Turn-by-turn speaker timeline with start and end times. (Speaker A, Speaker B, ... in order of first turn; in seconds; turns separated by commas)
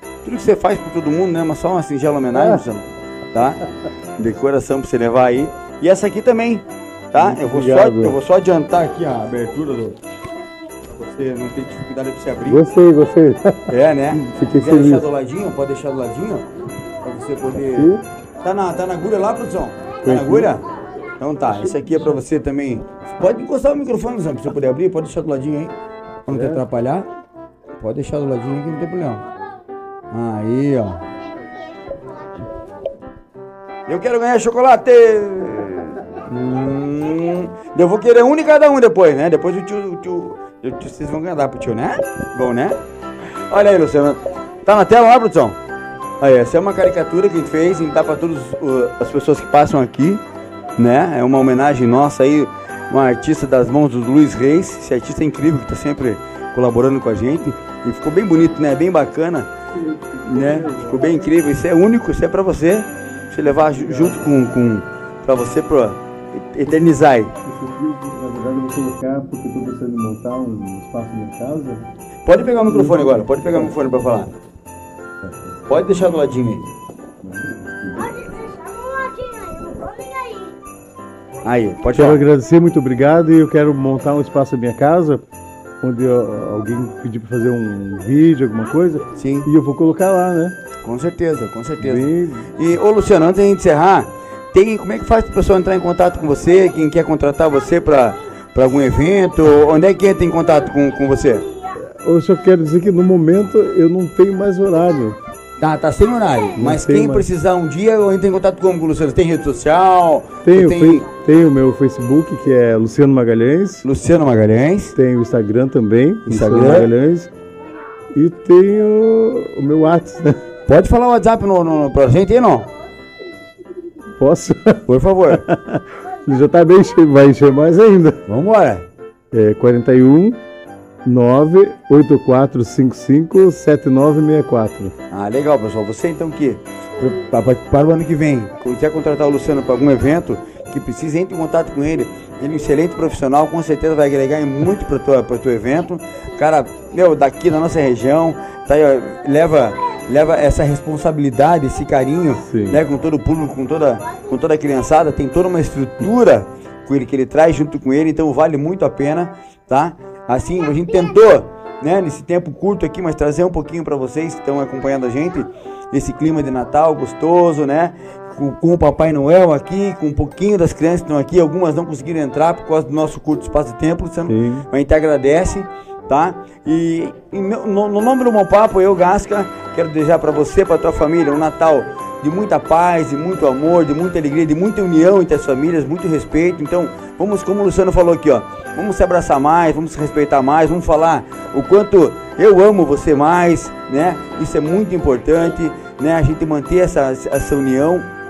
Speaker A: 0.2-3.6, Speaker B: 2.3-2.6, Speaker A: 4.2-10.0, Speaker B: 7.1-8.2, Speaker A: 10.8-12.7, Speaker B: 12.5-15.1, Speaker A: 13.7-25.7, Speaker B: 17.7-18.0, Speaker B: 20.0-20.6, Speaker C: 20.8-21.1, Speaker B: 21.6-22.1, Speaker A: 26.2-27.1, Speaker B: 26.3-26.6, Speaker A: 27.8-29.2, Speaker A: 30.1-31.1, Speaker C: 31.0-32.9, Speaker A: 33.9-45.6, Speaker A: 46.2-50.2, Speaker A: 50.8-59.5, Speaker B: 59.7-61.3, Speaker A: 60.2-67.3, Speaker B: 63.6-64.2, Speaker B: 67.4-71.8, Speaker A: 72.2-74.3, Speaker B: 72.7-73.7, Speaker B: 75.2-75.5, Speaker A: 75.7-76.7, Speaker B: 77.2-78.1, Speaker C: 78.0-80.5, Speaker A: 81.4-82.2, Speaker B: 81.9-85.2, Speaker B: 85.8-90.5, Speaker A: 89.1-89.5, Speaker A: 90.8-101.5, Speaker B: 91.8-92.5, Speaker B: 101.8-105.2, Speaker A: 105.6-111.1, Speaker B: 106.5-107.2, Speaker B: 110.4-113.8, Speaker A: 113.8-115.0, Speaker B: 114.9-117.3, Speaker A: 116.3-116.9, Speaker B: 118.1-120.5, Speaker A: 120.7-122.7, Speaker B: 124.2-128.2, Speaker A: 124.8-125.5, Speaker A: 128.3-128.9, Speaker B: 129.3-130.4, Speaker B: 131.0-134.9, Speaker A: 135.1-198.1, Speaker B: 152.4-152.8, Speaker B: 174.3-174.7